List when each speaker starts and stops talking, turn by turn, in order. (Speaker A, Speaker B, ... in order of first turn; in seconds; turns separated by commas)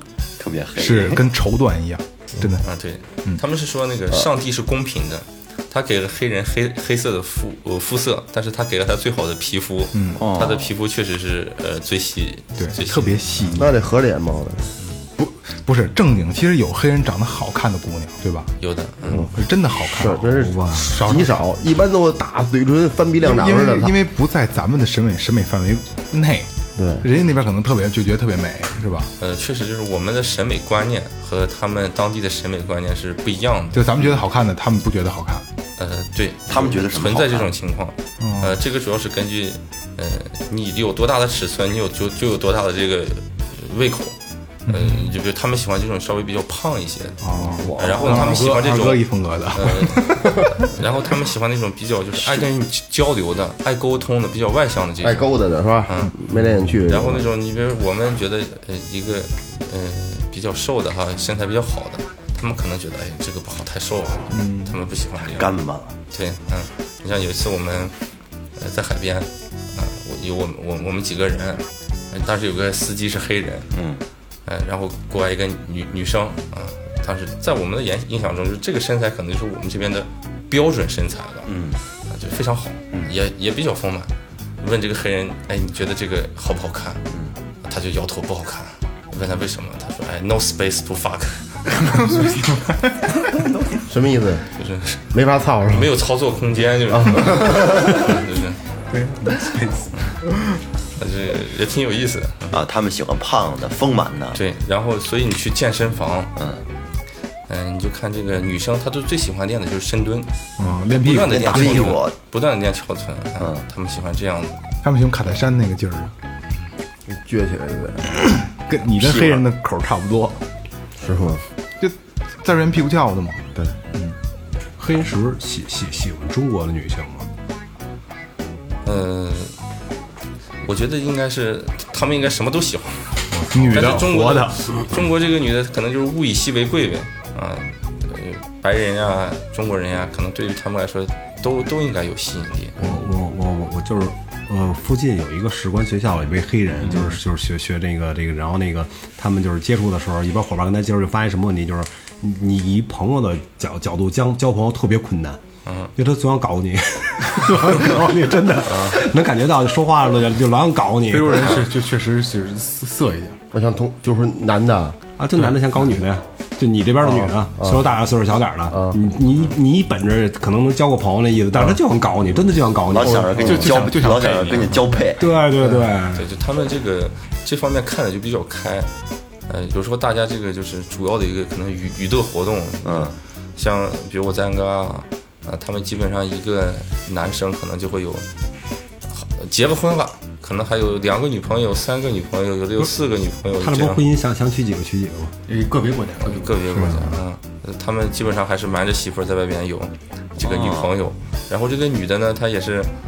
Speaker A: 0.4-1.2, Speaker B: 0.8-2.7, Speaker C: 2.6-13.7, Speaker B: 9.9-10.2, Speaker A: 10.2-10.7, Speaker B: 12.6-13.8, Speaker D: 13.6-14.7, Speaker B: 15.2-18.5, Speaker C: 18.6-19.3, Speaker D: 19.1-23.9, Speaker B: 19.1-21.4, Speaker E: 20.4-21.0, Speaker B: 23.2-29.1, Speaker D: 26.8-27.1, Speaker C: 29.2-33.9, Speaker B: 33.7-35.5, Speaker C: 35.8-47.2, Speaker A: 36.5-37.5, Speaker B: 38.2-38.6, Speaker B: 44.7-45.1, Speaker B: 47.2-50.7, Speaker D: 47.4-48.4, Speaker C: 47.8-55.3, Speaker D: 55.0-57.2, Speaker C: 55.9-56.1, Speaker C: 56.9-65.5, Speaker B: 64.3-64.8, Speaker A: 65.2-66.0, Speaker C: 66.1-68.0, Speaker C: 68.6-73.7, Speaker A: 73.7-74.0, Speaker C: 74.5-81.5, Speaker A: 81.5-81.8, Speaker C: 82.1-87.0, Speaker C: 87.6-92.2, Speaker B: 91.9-93.7, Speaker D: 93.9-94.5, Speaker C: 94.6-95.0, Speaker D: 95.1-95.9, Speaker C: 95.7-98.6, Speaker D: 96.9-98.1, Speaker B: 98.9-100.6, Speaker C: 101.0-102.6, Speaker A: 102.5-104.4, Speaker C: 104.3-106.3, Speaker A: 106.4-106.6, Speaker C: 107.5-110.3, Speaker B: 110.6-112.0, Speaker C: 110.9-114.6, Speaker A: 111.3-112.2, Speaker A: 113.4-113.6, Speaker B: 114.8-116.1, Speaker D: 117.1-118.1, Speaker B: 118.5-120.4, Speaker D: 121.0-121.4, Speaker B: 121.8-124.2, Speaker E: 124.8-127.3, Speaker C: 128.8-129.5, Speaker C: 130.6-142.8, Speaker E: 133.3-134.0, Speaker B: 133.5-134.8, Speaker E: 142.8-155.4, Speaker C: 155.7-155.9, Speaker E: 156.0-161.7, Speaker B: 161.1-163.4, Speaker D: 163.5-165.0, Speaker E: 165.2-173.5, Speaker D: 167.1-167.9, Speaker D: 168.7-169.0, Speaker B: 171.5-171.8, Speaker A: 172.9-175.3, Speaker D: 173.2-173.7, Speaker B: 173.4-175.0, Speaker C: 174.2-174.6, Speaker E: 175.2-176.3, Speaker D: 175.6-175.9, Speaker C: 176.2-178.9, Speaker C: 179.5-188.3, Speaker A: 182.8-183.2, Speaker C: 189.1-194.0, Speaker E: 193.6-195.3, Speaker B: 195.5-196.6, Speaker C: 196.2-202.9, Speaker E: 196.7-197.2, Speaker A: 200.4-200.9